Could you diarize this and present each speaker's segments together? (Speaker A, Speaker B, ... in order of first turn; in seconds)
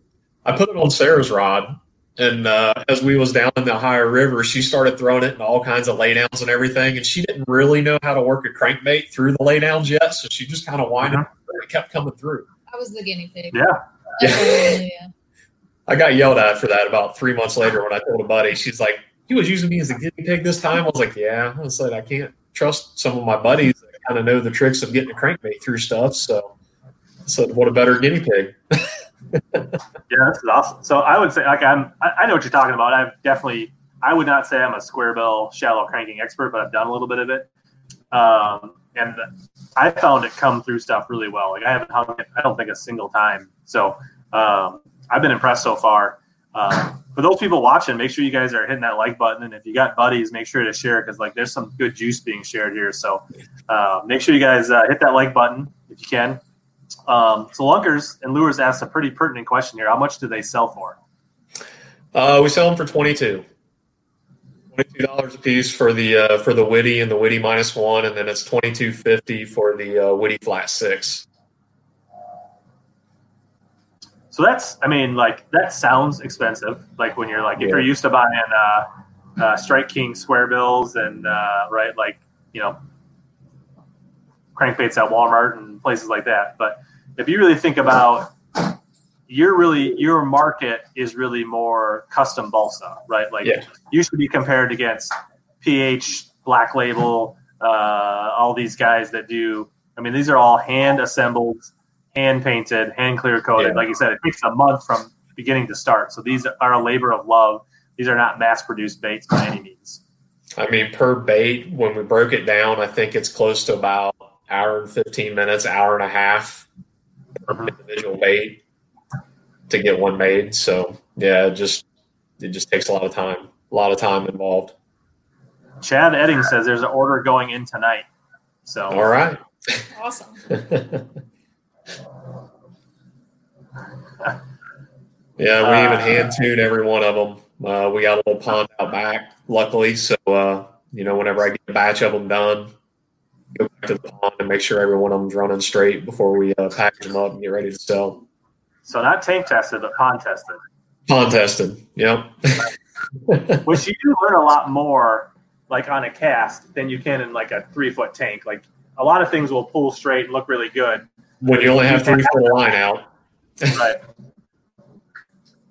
Speaker A: 0.5-12.5, 14.2-14.8, 15.9-26.5, 27.3-29.8, 62.1-63.5, 64.7-71.3, 77.6-77.9, 103.6-103.8, 110.6-116.7, 117.5-118.6, 119.7-121.8, 122.4-124.8, 128.9-129.8, 130.5-131.1, 135.4-142.7, 143.5-148.2, 151.1-152.7, 153.3-153.6, 161.4-163.1
Speaker B: 11.0-11.3, 13.5-13.8, 30.1-37.5, 38.1-56.4, 57.1-61.0, 74.3-82.8, 84.5-88.3, 89.3-110.0, 125.8-128.1, 128.7-129.1, 135.6-136.3, 148.9-150.6, 153.6-161.1, 161.8-162.5, 163.7-164.0
Speaker C: 12.7-13.6, 14.2-15.1, 129.9-130.4